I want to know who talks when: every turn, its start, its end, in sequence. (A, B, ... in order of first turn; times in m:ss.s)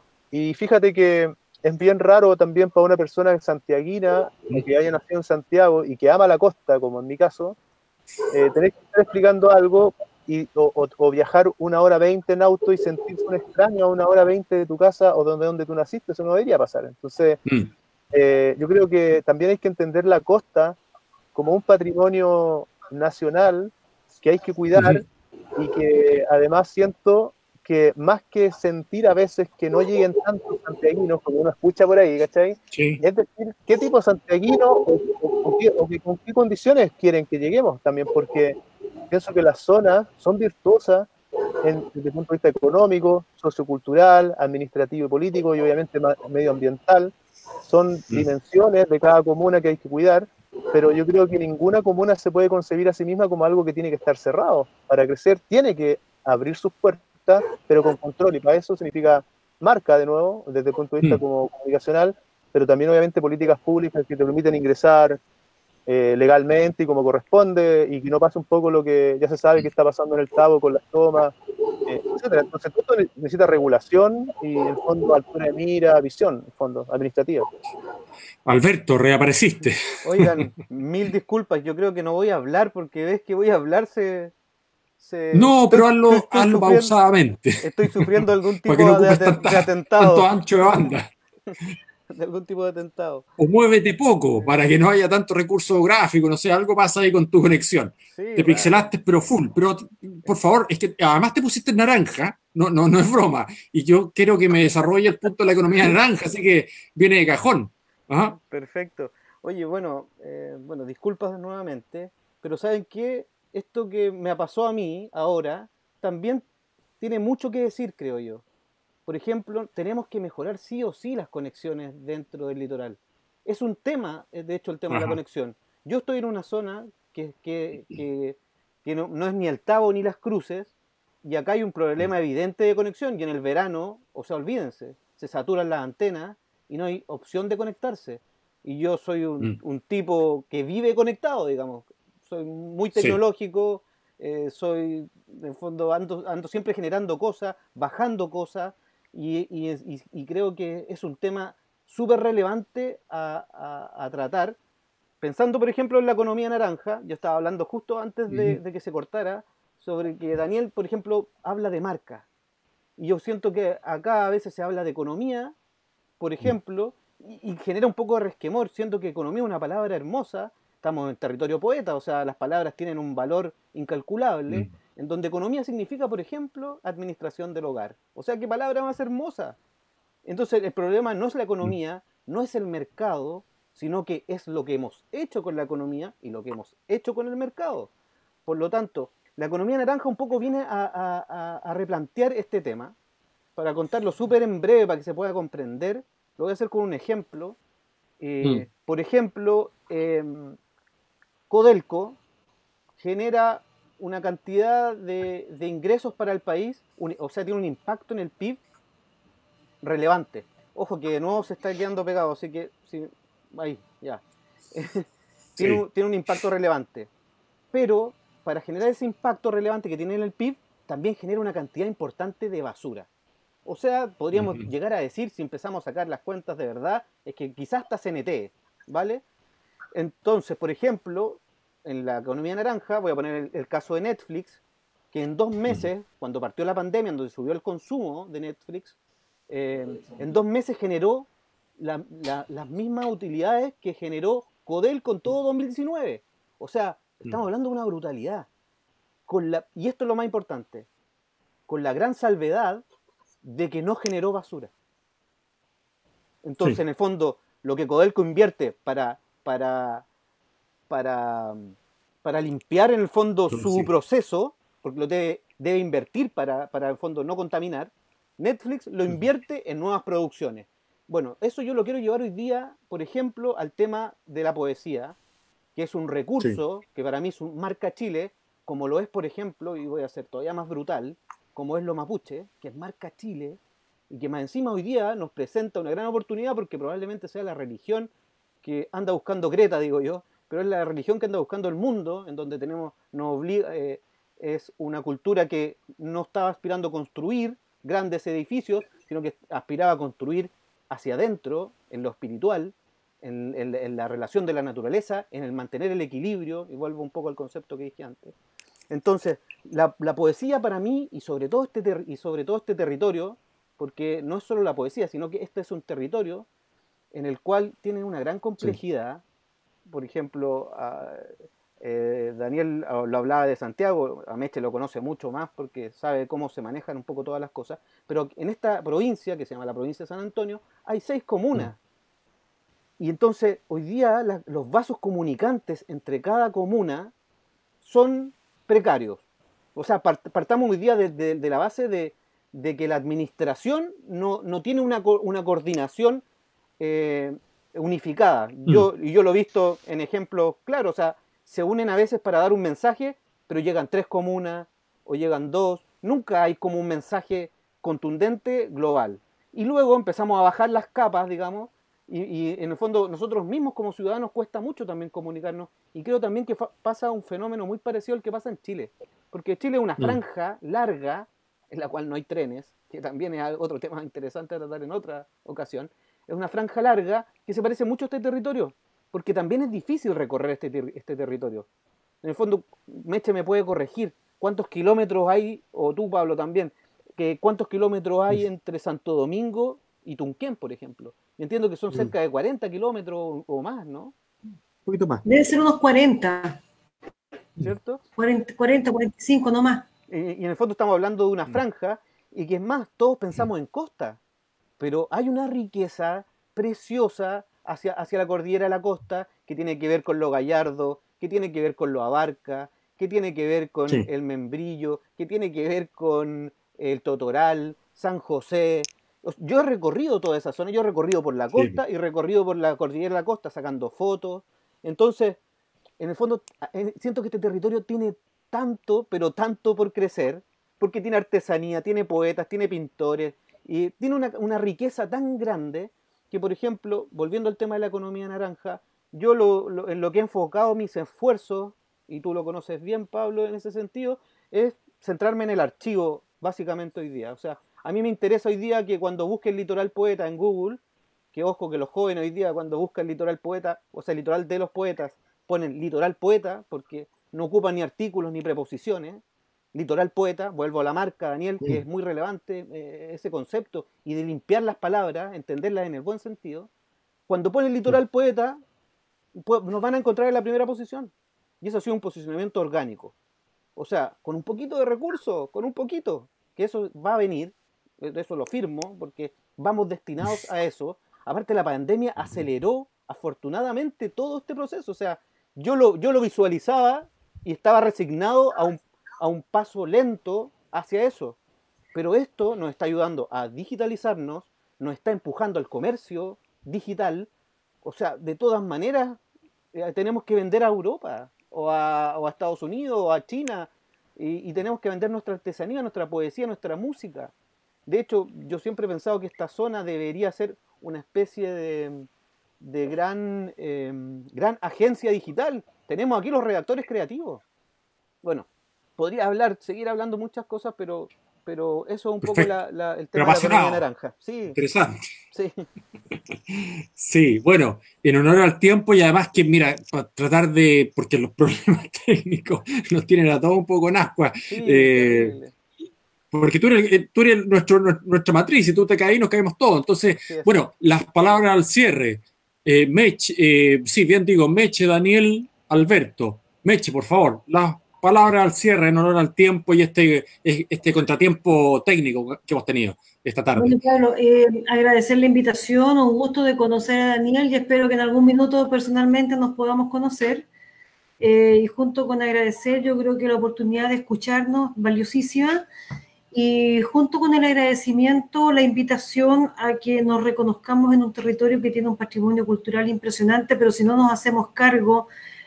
0:00.3-0:07.6 A
0:08.3-0:17.4 A
0:18.1-0:20.8 A
0:21.3-0:25.0 A
0:24.7-0:25.0 B
0:25.6-0:41.1 A
0:32.7-0:33.0 B
0:41.6-0:47.1 A
0:47.6-1:05.2 A
1:05.8-1:17.5 A
1:18.4-1:20.3 B
1:20.0-1:24.3 C
1:25.0-1:26.9 C
1:25.3-1:28.1 B
1:27.6-1:30.3 C
1:28.7-1:31.1 B
1:32.1-1:33.3 C
1:33.4-1:48.4 B
1:38.1-1:38.9 C
1:48.3-1:56.4 C
1:57.0-1:58.4 C
1:59.0-2:10.7 C
2:04.9-2:05.2 B
2:11.2-2:34.6 C
2:35.2-2:42.2 C
2:38.3-2:38.6 B
2:43.0-2:45.5 C
2:46.2-2:59.6 C
3:00.2-3:07.9 C
3:08.4-3:12.9 C
3:13.6-3:17.6 C
3:18.2-3:20.6 C
3:21.5-3:22.2 C
3:23.0-3:28.6 C
3:29.8-3:34.2 C
3:34.7-3:37.1 C
3:37.7-3:43.1 C
3:43.6-3:49.2 C
3:44.3-3:44.7 B
3:49.9-3:54.6 C
3:55.1-3:59.0 C
3:59.5-4:08.5 C
4:09.3-4:10.9 C
4:11.7-4:12.8 C
4:13.4-4:14.7 C
4:16.4-4:20.0 C
4:20.9-4:35.2 C
4:23.5-4:23.9 B
4:35.7-4:43.6 C
4:44.1-4:48.1 C
4:48.6-5:08.3 C
5:08.9-5:16.5 C
5:17.1-5:19.2 C
5:19.8-5:31.8 C
5:33.0-5:37.1 C
5:37.8-5:39.2 C
5:39.7-5:46.2 C
5:46.8-6:21.6 C
6:22.2-6:34.1 C
6:34.8-6:35.2 B
6:35.2-6:36.6 D
6:37.6-6:38.0 C
6:38.2-6:39.8 D
6:40.1-6:44.2 C
6:44.8-7:05.4 C
7:01.5-7:01.8 B
7:06.0-7:30.8 C
7:31.3-7:39.2 C
7:39.7-7:46.7 C
7:47.3-7:48.6 C
7:49.3-7:53.1 C
7:53.8-8:11.4 C
8:02.2-8:02.4 B
8:11.9-8:17.3 C
8:17.8-8:19.2 C
8:19.7-8:27.3 C
8:27.9-8:32.1 C
8:32.6-8:37.4 C
8:38.2-8:44.6 C
8:42.2-8:42.5 B
8:43.1-8:43.8 B
8:44.5-8:45.0 B
8:45.3-8:45.7 C
8:46.5-8:55.4 B
8:54.5-8:55.5 C
8:56.3-9:13.8 B
9:00.3-9:00.5 C
9:13.6-9:20.5 D
9:21.2-9:25.6 D
9:26.3-9:35.1 D